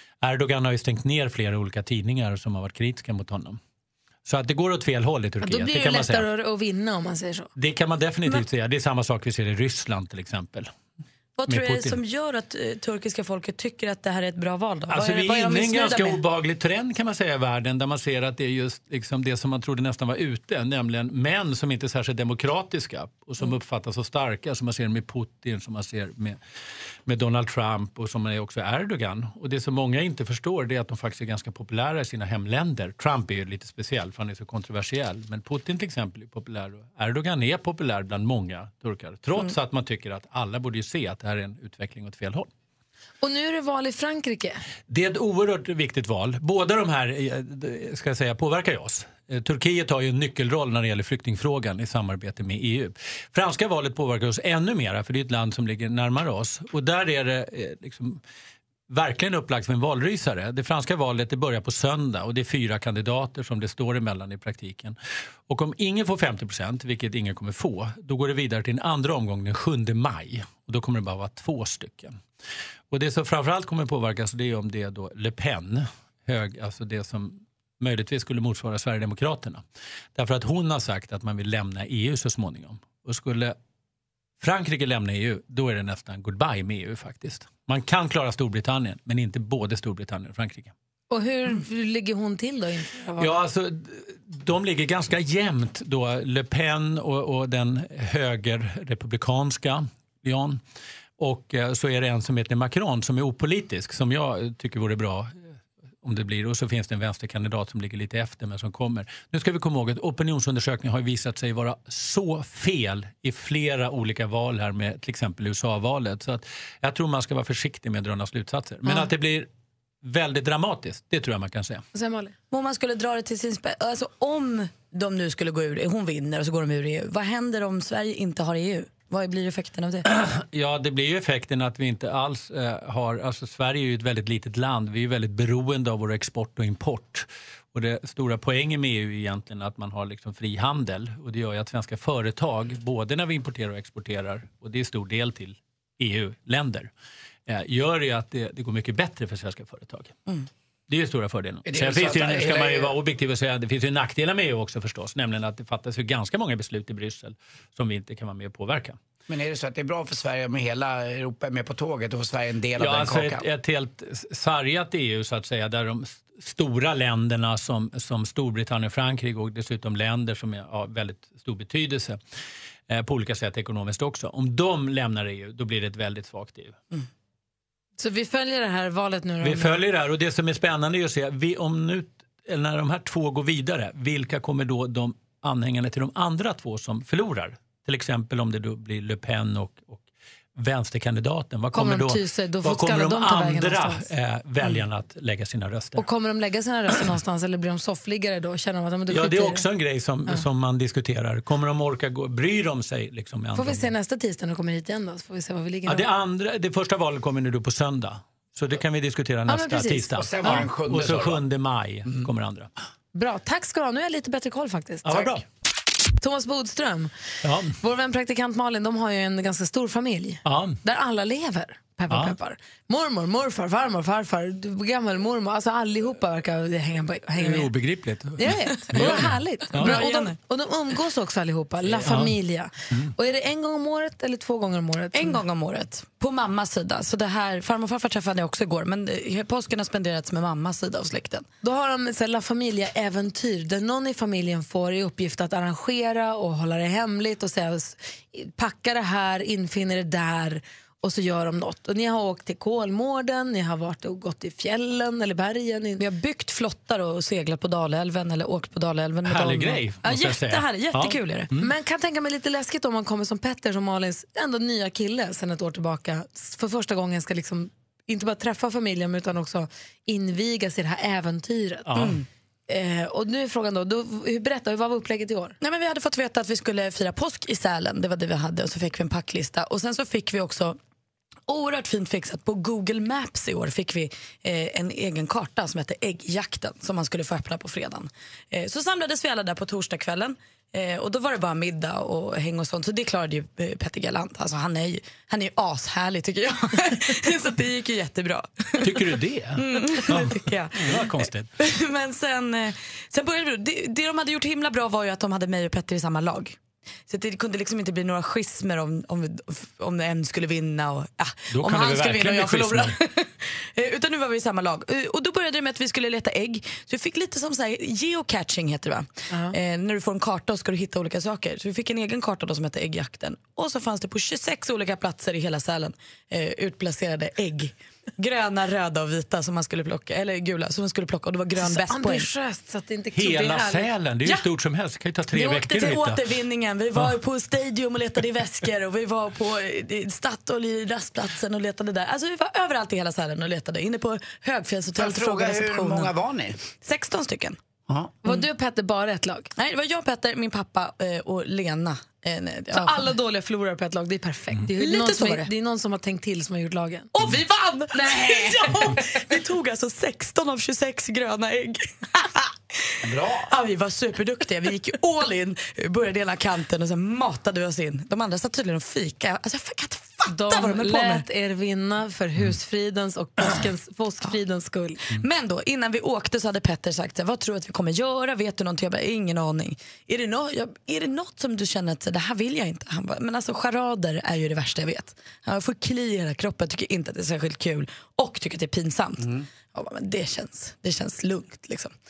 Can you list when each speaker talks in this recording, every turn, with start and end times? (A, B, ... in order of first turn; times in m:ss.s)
0:00.2-0:03.6 A
0:04.2-0:06.3 A
0:05.4-0:07.5 B
0:07.6-0:10.7 A
0:11.4-0:16.2 C
0:11.5-0:12.0 A
0:14.9-0:26.4 A
0:27.1-0:42.5 A
0:43.2-0:44.6 B
0:44.9-0:58.2 A
0:58.9-1:05.0 A
1:05.5-1:12.2 A
1:12.9-1:19.6 A
1:20.1-1:23.6 A
1:24.4-1:30.7 A
1:31.1-1:33.3 B
1:33.2-1:40.6 A
1:41.2-1:45.3 A
1:46.0-1:59.5 A
2:00.0-2:01.8 A
2:01.9-2:02.3 B
2:02.5-2:10.1 C
2:10.0-2:26.9 A
2:27.5-2:30.2 A
2:30.9-2:39.0 A
2:31.6-2:32.9 D
2:39.3-2:43.4 D
2:42.8-2:52.2 A
2:52.9-2:56.8 A
2:58.0-2:59.8 B
2:59.4-3:16.0 A
3:11.7-3:14.1 B
3:16.0-3:19.6 B
3:19.1-3:23.9 A
3:23.5-3:26.1 B
3:25.8-3:32.7 A
3:29.5-3:30.6 B
3:30.1-3:31.4 D
3:33.1-3:35.3 B
3:35.0-3:35.4 A
3:36.2-3:37.1 B
3:37.4-3:37.8 A
3:37.7-3:47.7 B
3:40.4-3:40.8 A
3:42.1-3:42.4 A
3:47.3-3:50.0 A
3:48.4-3:55.4 B
3:49.7-3:50.4 C
3:51.9-3:52.4 A
3:55.1-4:01.4 C
4:01.6-4:16.0 B
4:16.0-4:21.5 C
4:19.2-4:21.7 A
4:21.6-4:31.9 B
4:31.8-4:32.2 A
4:31.9-4:32.2 C
4:32.7-4:35.6 B
4:35.6-4:40.8 C
4:41.5-5:06.6 C
4:58.8-5:01.5 A
5:07.1-5:32.3 C
5:11.5-5:12.9 A
5:31.6-5:33.9 B
5:33.1-5:36.2 A
5:35.3-5:46.1 C
5:45.0-5:46.6 D
5:46.6-5:47.6 C
5:47.9-5:48.1 D
5:48.2-5:49.5 B
5:49.6-5:53.1 C
5:52.7-5:57.1 B
5:54.7-5:55.5 C
5:57.1-6:02.9 C
5:58.0-5:58.6 D
6:03.0-6:03.5 D
6:03.5-6:11.2 C
6:10.3-6:15.0 B
6:15.1-6:31.9 C
6:29.2-6:29.4 D